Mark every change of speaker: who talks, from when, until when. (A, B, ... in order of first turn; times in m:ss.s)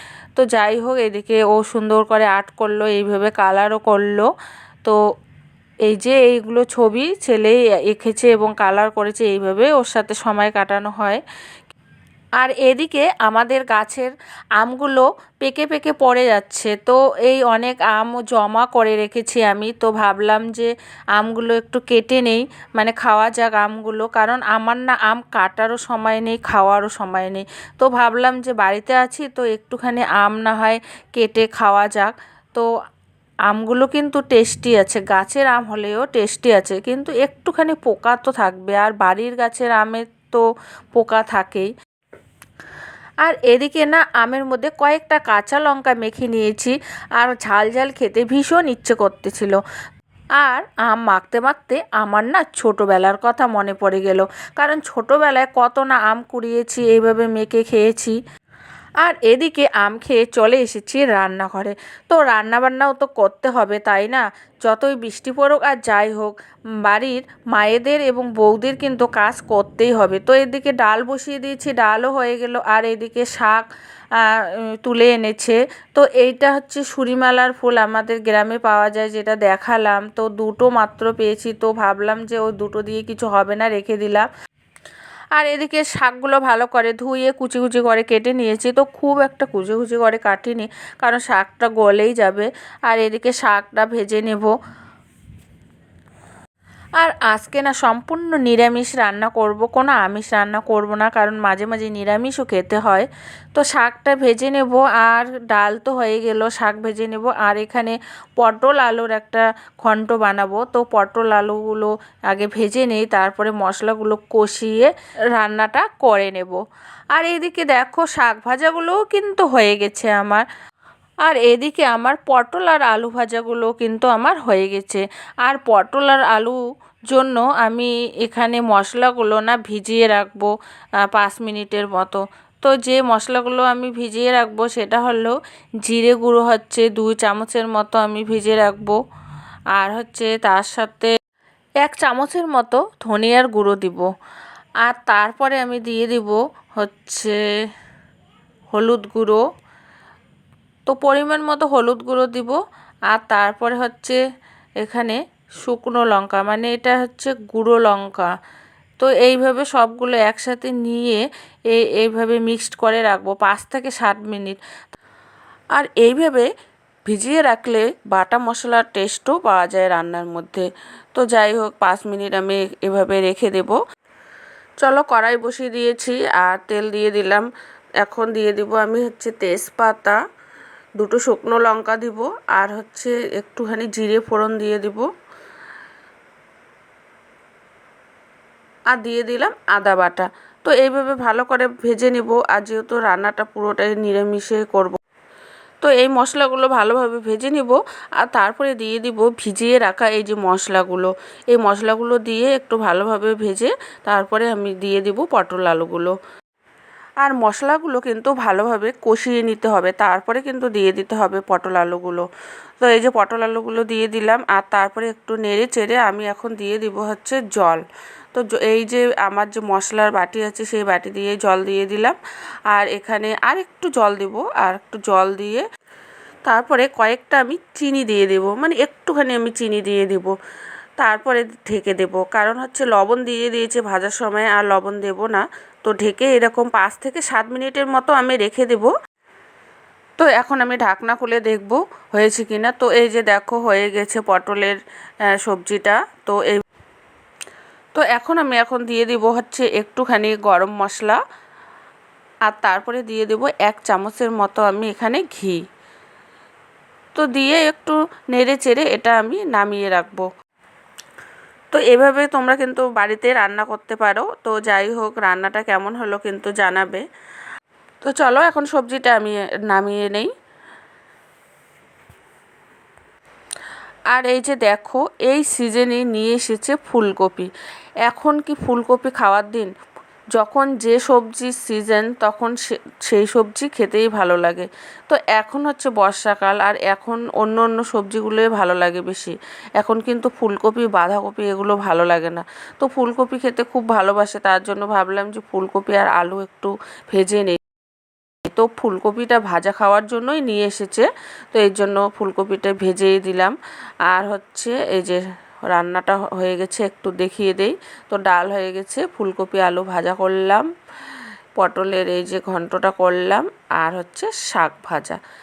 0:00.4-0:04.3 A
0:05.9-0:11.2 A
0:12.4-0:32.7 A
0:33.5-0:41.7 A
0:43.2-0:49.6 A
0:50.4-0:58.2 A
0:59.0-1:13.6 A
1:14.2-1:24.3 A
1:25.4-1:34.5 A
1:37.0-1:56.6 A
1:57.1-2:00.4 A
2:01.3-2:06.6 A
2:07.1-2:10.5 A
2:11.1-2:19.0 A
2:19.8-2:21.1 A
2:21.8-2:24.1 A
2:24.8-2:27.4 A
2:28.7-2:29.4 A
2:30.9-2:32.6 A
2:33.1-2:34.2 A
2:34.8-2:38.3 A
2:39.0-2:44.6 A
2:45.8-2:46.5 A
2:47.1-2:53.8 A
2:54.8-2:57.5 A
2:58.0-3:00.2 A
3:01.0-3:05.1 A
3:08.9-3:15.0 A
3:15.8-3:26.1 A
3:27.2-3:32.3 A
3:32.8-3:37.8 A
3:38.3-3:42.2 A
3:42.7-3:45.6 A
3:46.4-3:50.3 A
3:51.0-3:58.9 A
4:00.2-4:04.8 A
4:05.3-4:06.6 A
4:07.9-4:11.2 A
4:12.5-4:15.6 A
4:17.1-4:20.3 A
4:21.7-4:27.0 A
4:28.0-4:30.3 A
4:34.1-4:37.5 A
4:38.0-4:39.7 A
4:40.3-4:57.6 A
4:58.4-5:03.5 A
5:04.1-5:10.7 A
5:11.6-5:15.2 A